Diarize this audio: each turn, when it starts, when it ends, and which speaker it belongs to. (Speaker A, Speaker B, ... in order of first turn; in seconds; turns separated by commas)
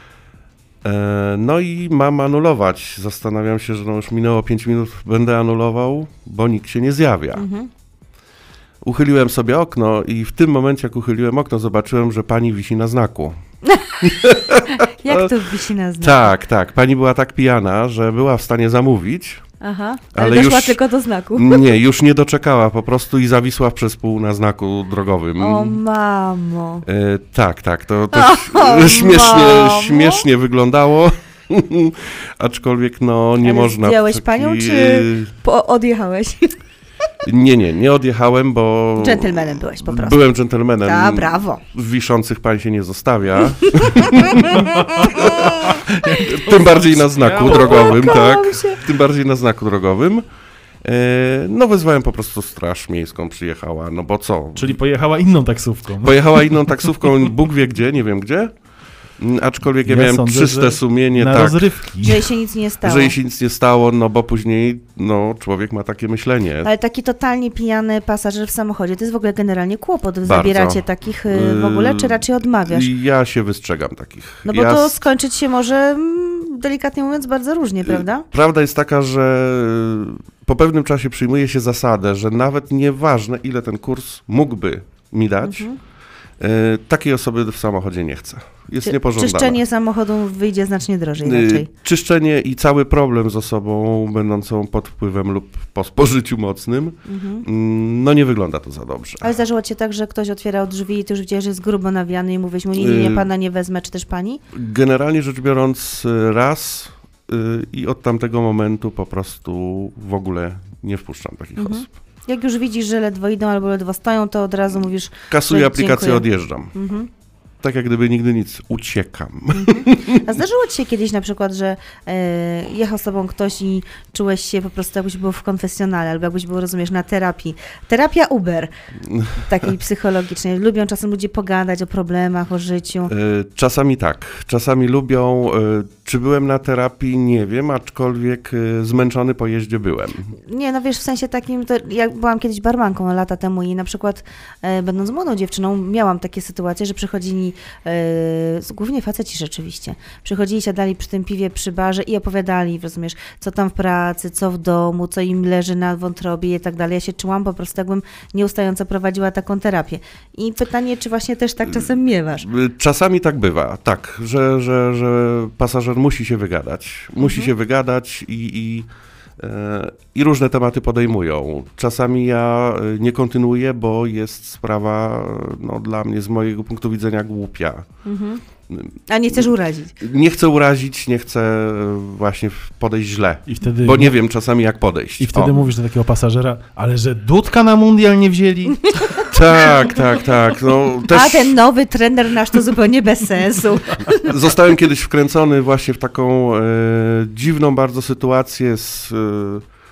Speaker A: 0.8-7.5, Speaker B: 7.3-7.7, Speaker A: 8.8-13.3, Speaker B: 13.7-16.3, Speaker A: 14.0-15.3, Speaker A: 16.0-19.4, Speaker B: 19.6-21.7, Speaker A: 20.1-20.8, Speaker A: 21.3-25.8, Speaker B: 25.4-26.9, Speaker A: 26.9-35.3, Speaker B: 28.1-30.2, Speaker B: 33.4-36.5, Speaker A: 37.2-50.2, Speaker B: 39.0-40.3, Speaker B: 40.8-41.6, Speaker B: 43.6-45.8, Speaker C: 44.5-48.1, Speaker B: 47.4-48.8, Speaker A: 50.8-54.8, Speaker C: 54.5-56.6, Speaker A: 56.0-58.5, Speaker A: 59.2-61.8, Speaker C: 59.8-62.3, Speaker B: 62.0-63.1, Speaker A: 62.8-66.7, Speaker B: 66.6-72.9, Speaker A: 70.2-75.0, Speaker B: 74.5-78.2, Speaker A: 77.8-85.7, Speaker B: 85.4-85.8, Speaker A: 86.4-89.6, Speaker B: 88.8-91.7, Speaker A: 91.2-99.4, Speaker B: 97.1-97.4, Speaker B: 99.2-104.4, Speaker A: 102.8-103.3, Speaker A: 104.5-111.9, Speaker B: 111.6-117.1, Speaker A: 115.3-116.7, Speaker A: 117.6-120.3, Speaker B: 119.5-128.7, Speaker A: 129.0-129.7, Speaker B: 129.4-133.1, Speaker A: 133.1-140.3, Speaker B: 140.5-162.5, Speaker A: 161.7-168.9, Speaker B: 167.2-167.5, Speaker A: 169.4-177.9, Speaker B: 178.0-178.4, Speaker A: 178.7-185.6, Speaker B: 179.1-180.0, Speaker C: 183.5-184.2, Speaker C: 185.2-189.3, Speaker B: 188.9-189.3, Speaker A: 189.3-191.6, Speaker B: 191.1-194.3, Speaker A: 194.2-199.6